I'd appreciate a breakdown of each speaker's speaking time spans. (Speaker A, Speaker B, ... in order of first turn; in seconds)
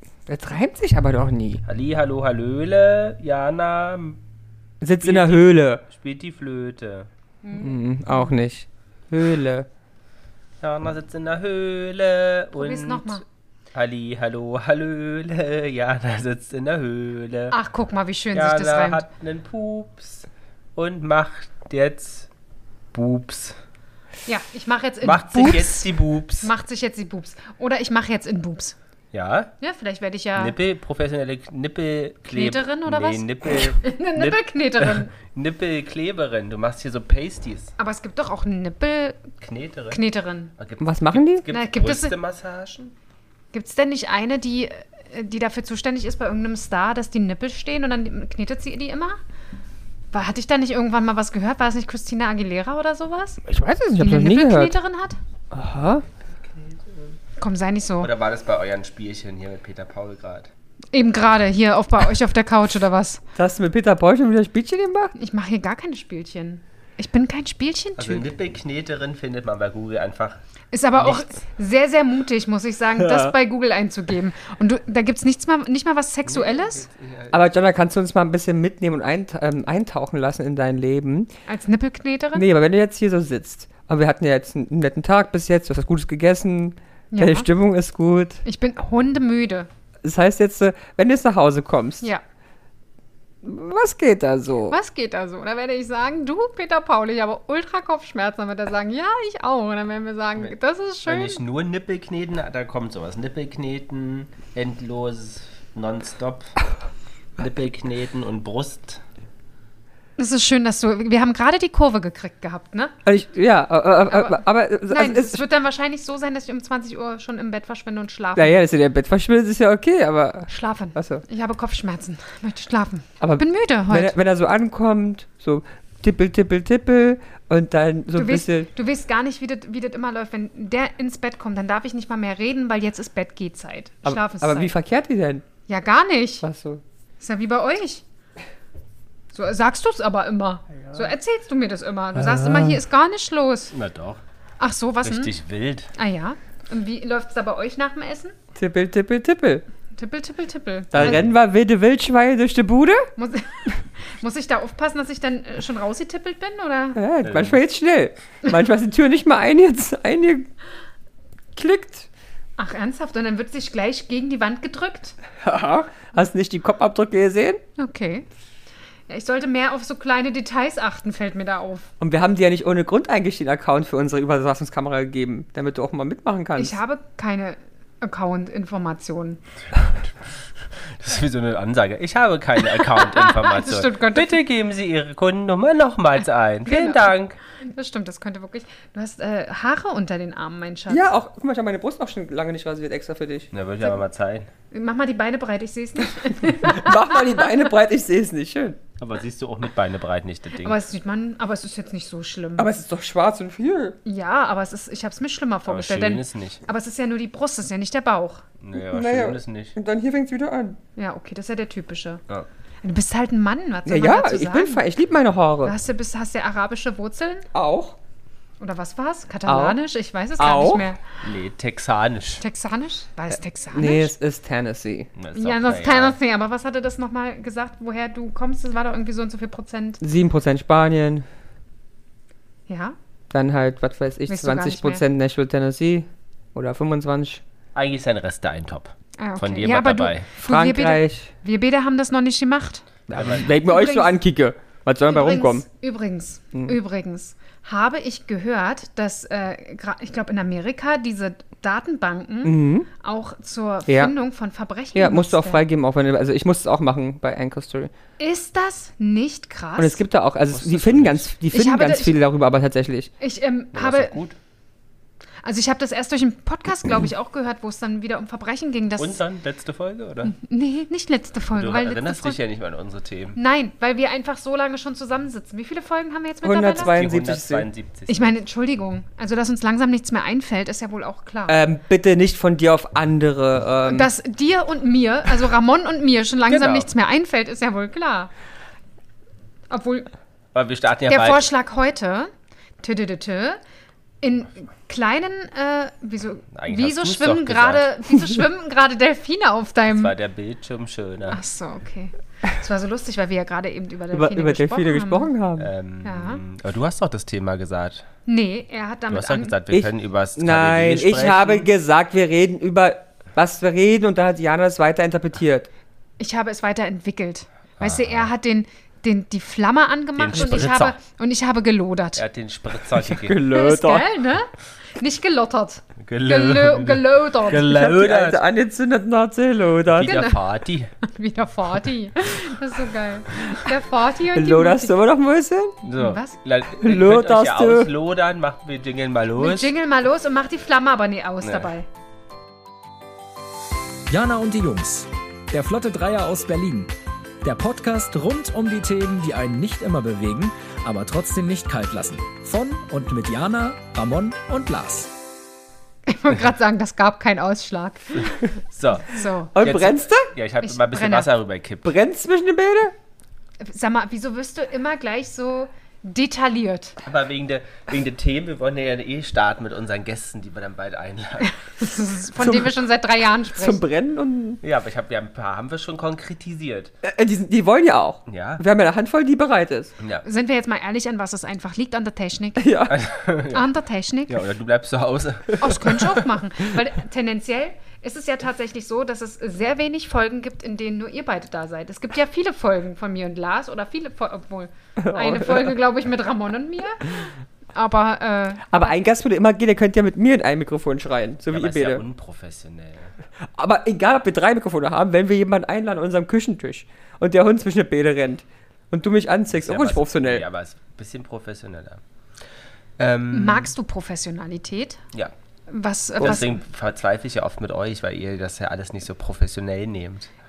Speaker A: 0.3-1.6, 4.8-5.8, 7.5-9.7, 40.8-41.4, 53.4-54.8, 55.5-56.0, 63.4-65.1, 73.0-73.3, 77.3-81.3, 82.3-88.4, 90.0-92.1, 93.4-94.8, 113.0-115.4, 118.4-121.2, 123.2-128.7, 134.1-135.4, 136.4-136.8, 142.2-142.8, 148.6-149.7, 150.9-153.1, 157.0-160.5, 161.6-162.1, 165.4-167.6, 172.0-176.8, 190.9-193.5, 196.6-198.8, 202.6-204.0, 208.8-210.8, 213.9-215.8, 217.5-218.0, 219.5-219.8, 220.4-220.9, 223.7-225.1, 230.0-231.2, 233.3-237.4, 240.4-241.3, 243.1-245.7, 252.4-252.9, 253.9-254.1, 254.9-257.9, 259.8-263.1, 276.4-277.7, 281.5-284.1, 304.1-305.7, 309.7-315.7, 323.1-324.1, 327.6-330.2, 334.3-335.8, 336.8-337.9, 359.6-360.3, 361.8-362.9, 372.4-372.8, 373.6-374.6, 377.0-379.9, 382.6-383.0, 395.0-395.8, 398.7-402.0, 403.6-410.4
Speaker B: 1.7-4.2, 5.0-7.1, 10.6-13.2, 13.7-17.6, 18.3-22.3, 22.9-23.6, 25.0-26.5, 29.1-29.5, 30.4-37.7, 39.4-40.0, 40.6-42.9, 56.4-57.2, 58.0-60.5, 68.0-70.4, 71.0-71.3, 76.3-77.5, 101.1-106.5, 107.4-109.0, 143.7-144.2, 145.0-145.9, 150.9-151.3, 157.2-157.6, 180.8-187.4, 193.5-194.5, 199.0-200.8, 205.7-206.6, 208.6-209.8, 221.2-222.4, 225.2-226.2, 237.8-240.3, 243.1-243.5, 260.5-261.3, 263.7-264.4, 269.0-270.3, 271.5-273.4, 276.8-278.3, 286.5-286.9, 290.5-291.5, 296.5-297.9, 299.9-301.4, 305.6-308.1, 309.1-311.7, 317.8-318.3, 320.2-321.0, 322.2-323.4, 326.0-328.4, 329.9-330.9, 335.8-339.7, 341.4-341.7, 358.7-361.9, 367.0-371.5, 374.6-376.9, 378.3-378.6, 382.9-383.6, 384.3-386.1, 401.5-403.1, 409.5-412.0, 413.0-413.7, 416.2-420.3
Speaker C: 7.4-8.4, 12.6-13.2, 17.5-19.0, 24.3-25.9, 26.4-28.8, 29.6-30.6, 32.3-35.1, 37.8-39.3, 39.9-40.5, 41.5-42.2, 43.5-49.2, 50.1-53.4, 54.0-55.2, 57.4-58.1, 60.9-63.2, 65.2-68.3, 70.7-76.9, 81.5-82.5, 87.1-87.5, 88.5-89.7, 94.7-101.4, 110.2-113.0, 114.1-114.4, 114.9-118.6, 120.5-124.1, 128.2-134.7, 135.7-136.4, 137.2-138.0, 139.3-143.7, 144.6-145.3, 145.9-148.3, 150.0-151.2, 153.2-157.0, 162.6-165.2, 167.8-168.3, 169.1-171.9, 176.6-179.4, 182.8-184.4, 186.7-191.1, 194.7-197.6, 200.6-202.7, 204.1-208.4, 211.0-212.2, 212.8-214.8, 215.6-217.5, 218.6-221.0, 222.4-224.1, 225.3-230.0, 232.7-233.0, 234.3-235.1, 239.2-242.8, 243.6-244.2, 245.1-255.6, 258.2-260.0, 261.5-262.2, 263.2-264.2, 265.4-269.2, 270.2-272.4, 273.4-276.9, 278.1-281.6, 283.9-288.3, 289.7-290.1, 291.1-292.3, 292.8-293.6, 294.2-300.1, 301.3-305.3, 306.0-306.4, 308.3-309.6, 316.2-322.2, 323.4-327.8, 330.0-330.4, 331.0-335.0, 336.0-336.4, 339.4-341.9, 356.1-358.5, 359.1-359.6, 360.6-361.4, 363.6-367.0, 371.7-373.8, 380.2-382.9, 383.5-384.4, 385.6-399.0, 413.3-415.0, 415.7-416.6
Speaker D: 344.1-355.1